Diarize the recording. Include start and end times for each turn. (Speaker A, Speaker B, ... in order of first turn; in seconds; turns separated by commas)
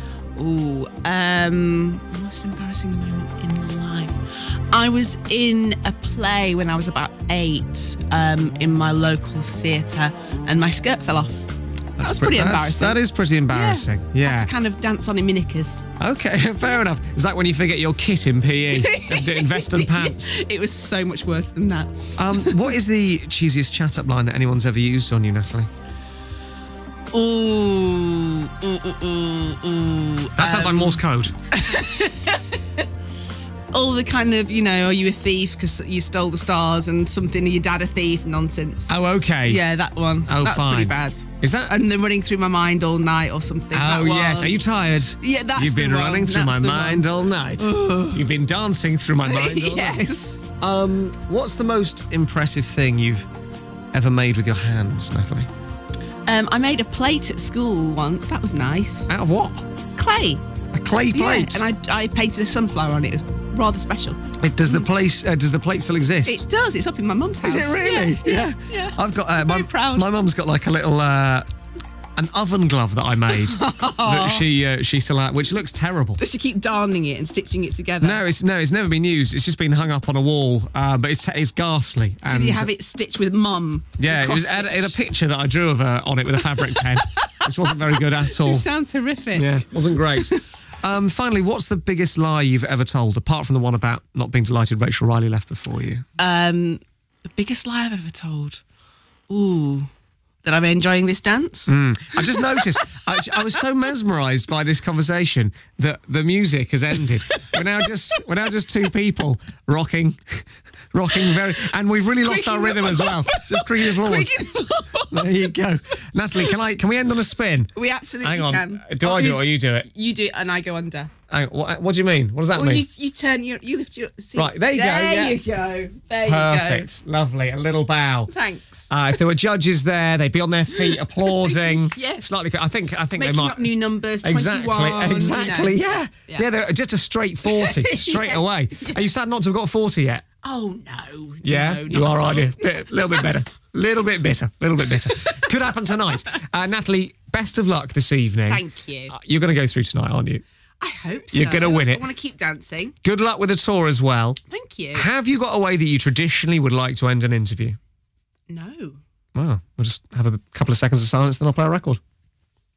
Speaker A: 0.4-15.8, Speaker B: 12.0-14.5, Speaker B: 16.0-20.4, Speaker A: 18.7-22.8, Speaker B: 22.2-25.7, Speaker A: 27.1-32.9, Speaker B: 30.4-31.4, Speaker A: 33.7-44.6, Speaker B: 38.9-39.6, Speaker B: 40.3-41.8, Speaker B: 43.7-50.1, Speaker A: 45.2-48.3, Speaker A: 49.2-50.4, Speaker B: 50.6-53.3, Speaker B: 53.9-55.5, Speaker A: 56.3-59.1, Speaker B: 59.1-59.7, Speaker A: 60.0-60.4, Speaker B: 60.7-61.6, Speaker A: 61.1-64.9, Speaker B: 64.4-66.5, Speaker A: 66.3-70.1, Speaker B: 67.4-71.5, Speaker B: 72.2-76.2, Speaker A: 73.3-74.5, Speaker A: 76.2-78.2, Speaker B: 78.0-82.7, Speaker A: 82.3-85.0, Speaker B: 84.0-88.7, Speaker A: 86.4-90.5, Speaker B: 89.3-96.0, Speaker A: 96.2-98.6, Speaker A: 99.3-99.9, Speaker A: 100.4-102.9, Speaker B: 101.7-114.5, Speaker A: 107.3-107.6, Speaker A: 111.1-111.4, Speaker A: 112.2-116.6, Speaker B: 115.1-117.7, Speaker A: 117.8-121.1, Speaker B: 118.2-119.9, Speaker B: 121.3-122.9, Speaker A: 122.5-126.9, Speaker B: 124.4-125.4, Speaker B: 126.2-128.3, Speaker A: 128.3-128.9, Speaker B: 128.9-140.2, Speaker A: 130.7-132.3, Speaker A: 133.1-136.5, Speaker A: 137.4-139.1, Speaker A: 140.4-143.3, Speaker B: 141.4-150.4, Speaker A: 144.9-146.2, Speaker A: 148.5-149.1, Speaker A: 150.8-153.0, Speaker B: 151.3-152.1, Speaker B: 153.0-154.4, Speaker A: 154.5-155.1, Speaker B: 154.9-157.8, Speaker A: 158.5-159.0, Speaker B: 159.3-162.0